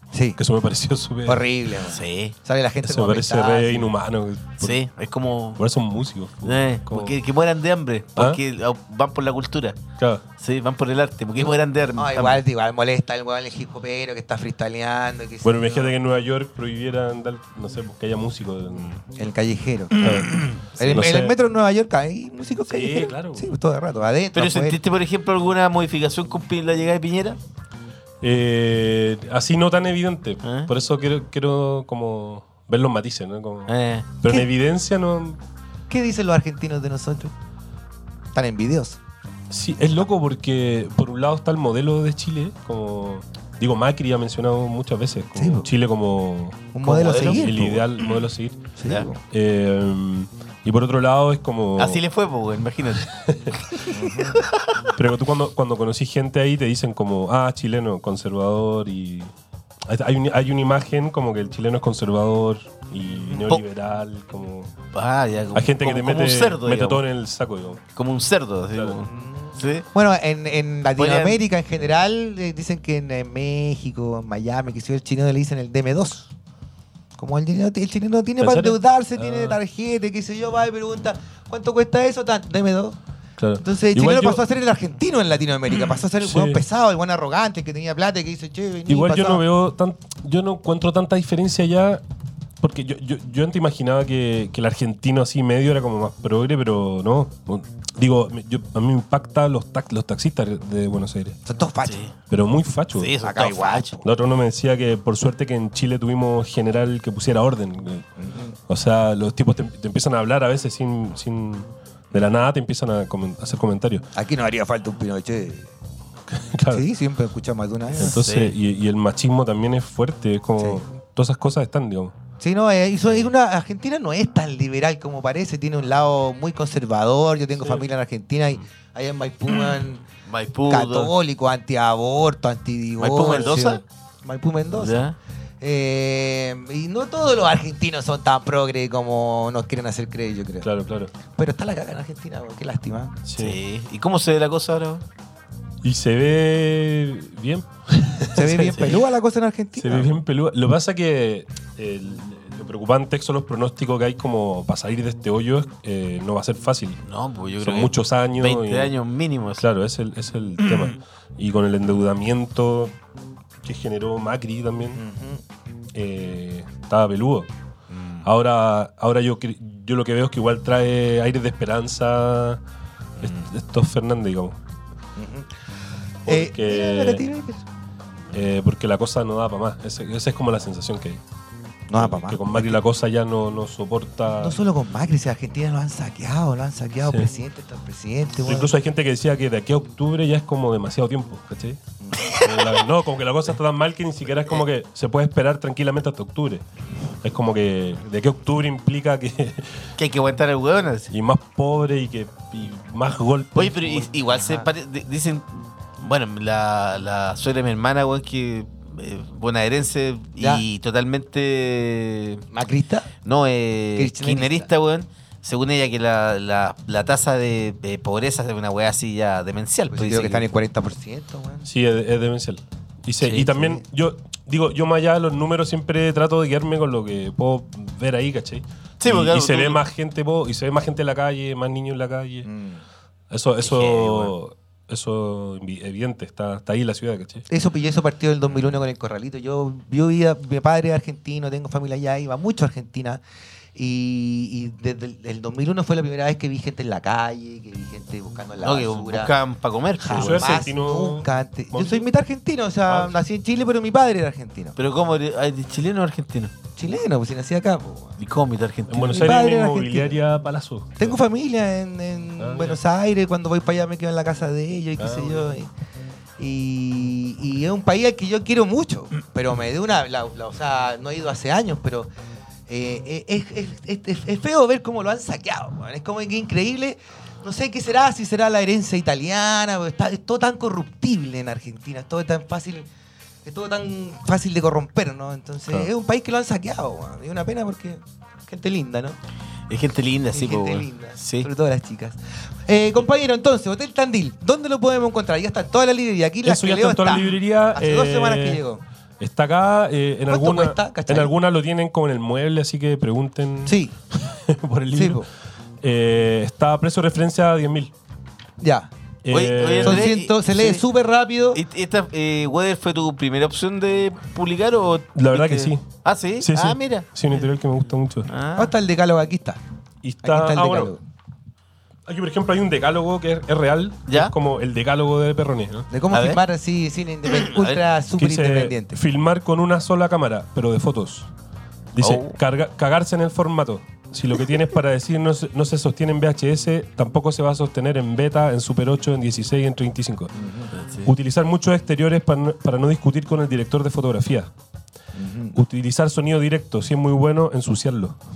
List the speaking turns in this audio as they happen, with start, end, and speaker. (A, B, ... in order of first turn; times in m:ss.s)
0:00.1-0:00.4 A
0:00.4-0:01.4 B
0:01.2-0:03.9 A
0:01.8-0:02.3 C
0:02.8-0:04.8 B
0:04.6-0:05.6 C
0:05.6-0:07.2 B
0:06.4-0:09.8 C
0:10.4-0:12.4 C
0:12.0-0:15.9 A
0:15.4-0:19.0 B
0:19.1-0:24.8 A
0:20.0-0:21.3 B
0:20.1-0:20.5 C
0:22.6-0:23.5 B
0:24.3-0:27.4 C
0:28.2-0:33.7 B
0:30.4-0:30.7 C
0:33.7-0:34.1 C
0:34.2-0:35.4 B
0:35.9-0:37.3 A
0:38.3-0:39.0 A
0:39.5-0:48.7 B
0:45.3-0:45.7 A
0:46.7-0:47.9 A
0:47.0-0:47.5 C
0:48.8-0:49.2 A
0:49.3-0:52.0 B
0:51.8-0:53.1 C
0:53.0-0:53.6 B
0:53.7-0:54.8 C
0:53.9-0:54.4 A
0:55.0-0:59.3 B
0:59.9-1:04.7 B
1:03.2-1:03.5 A
1:04.9-1:07.0 C
1:05.5-1:07.8 B
1:08.0-1:09.8 C
1:09.1-1:16.3 A
1:11.0-1:11.4 C
1:17.2-1:23.0 A
1:18.4-1:19.6 B
1:23.4-1:24.4 B
1:23.6-1:29.4 A
1:26.2-1:26.6 B
1:28.9-1:32.0 B
1:32.6-1:41.4 B
1:41.4-1:42.0 A
1:41.8-1:42.1 C
1:42.3-1:43.1 B
1:42.9-1:43.9 C
1:43.2-1:44.0 A
1:44.0-1:48.0 B
1:48.2-1:48.6 A
1:48.7-1:54.0 B
1:54.1-1:55.7 A
1:56.3-1:56.8 B
1:56.7-1:58.2 A
1:58.0-2:02.1 B
1:58.0-1:58.5 C
2:02.4-2:10.0 A
2:10.3-2:11.1 C
2:10.7-2:15.0 A
2:13.0-2:13.8 C
2:14.7-2:15.2 C
2:15.6-2:20.7 A
2:20.6-2:21.1 B
2:21.3-2:23.2 A
2:23.3-2:23.6 B
2:23.4-2:25.0 C
2:25.8-2:29.0 B
2:28.3-2:30.1 A
2:29.8-2:37.0 B
2:37.0-2:39.6 C
2:37.6-2:38.9 B
2:39.6-2:42.9 B
2:43.6-2:45.0 B
2:44.9-2:45.4 A
2:45.9-2:47.5 B
2:47.9-2:48.2 C
2:48.2-2:52.6 B
2:53.2-2:53.5 C
2:53.2-2:54.6 B
2:55.2-2:55.5 A
2:56.2-2:57.6 A
2:56.2-2:57.2 B
2:58.3-3:01.2 B
3:01.9-3:02.8 A
3:02.0-3:04.6 B
3:04.3-3:08.7 A
3:08.4-3:11.8 B
3:12.0-3:12.3 A
3:12.3-3:16.6 B
3:17.2-3:19.8 B
3:20.0-3:21.1 C
3:21.1-3:24.1 B
3:23.5-3:32.4 C
3:24.4-3:24.7 A
3:30.4-3:30.6 A
3:32.5-3:33.1 A
3:33.2-3:40.5 C
3:34.0-3:34.7 A
3:39.9-3:41.7 A
3:41.6-3:52.5 B
3:43.2-3:43.5 C
3:43.5-3:43.8 A
3:49.0-3:49.8 C
3:52.4-3:52.8 A
3:53.3-3:57.4 B
3:53.6-3:54.3 C
3:57.5-4:03.2 A
4:03.7-4:09.3 A
4:08.6-4:10.6 C
4:10.0-4:14.8 A
4:10.1-4:12.0 B
4:14.8-4:16.5 C
4:16.8-4:18.2 A
4:18.2-4:19.4 C
4:18.9-4:21.2 B
4:19.1-4:20.2 A
4:21.0-4:25.7 A
4:22.4-4:22.8 B
4:25.0-4:25.4 B
4:26.4-4:32.1 A
4:32.7-4:42.9 A
4:43.4-4:49.2 A
4:49.7-4:51.5 C
4:50.3-4:58.8 A
4:56.4-4:58.6 B
4:59.2-5:05.2 B
5:00.3-5:01.3 A
5:03.6-5:03.9 A
5:04.9-5:05.2 A
5:05.8-5:07.9 B
5:08.6-5:08.9 A
5:09.2-5:10.1 B
5:09.3-5:10.8 C
5:09.8-5:11.6 A
5:11.5-5:17.1 C
5:15.1-5:15.8 B
5:16.4-5:18.3 B
5:18.3-5:18.7 C
5:18.6-5:19.6 A
5:20.0-5:20.9 B
5:20.2-5:21.0 A
5:22.1-5:25.9 B
5:24.1-5:24.3 C
5:25.9-5:29.0 A
5:26.1-5:26.4 C
5:27.4-5:27.8 C
5:28.2-5:31.3 B
5:31.9-5:40.3 B
5:32.0-5:32.4 C
5:40.3-5:40.7 A
5:40.7-5:41.1 C
5:41.0-5:44.5 B
5:45.1-5:45.6 A
5:45.5-5:48.2 B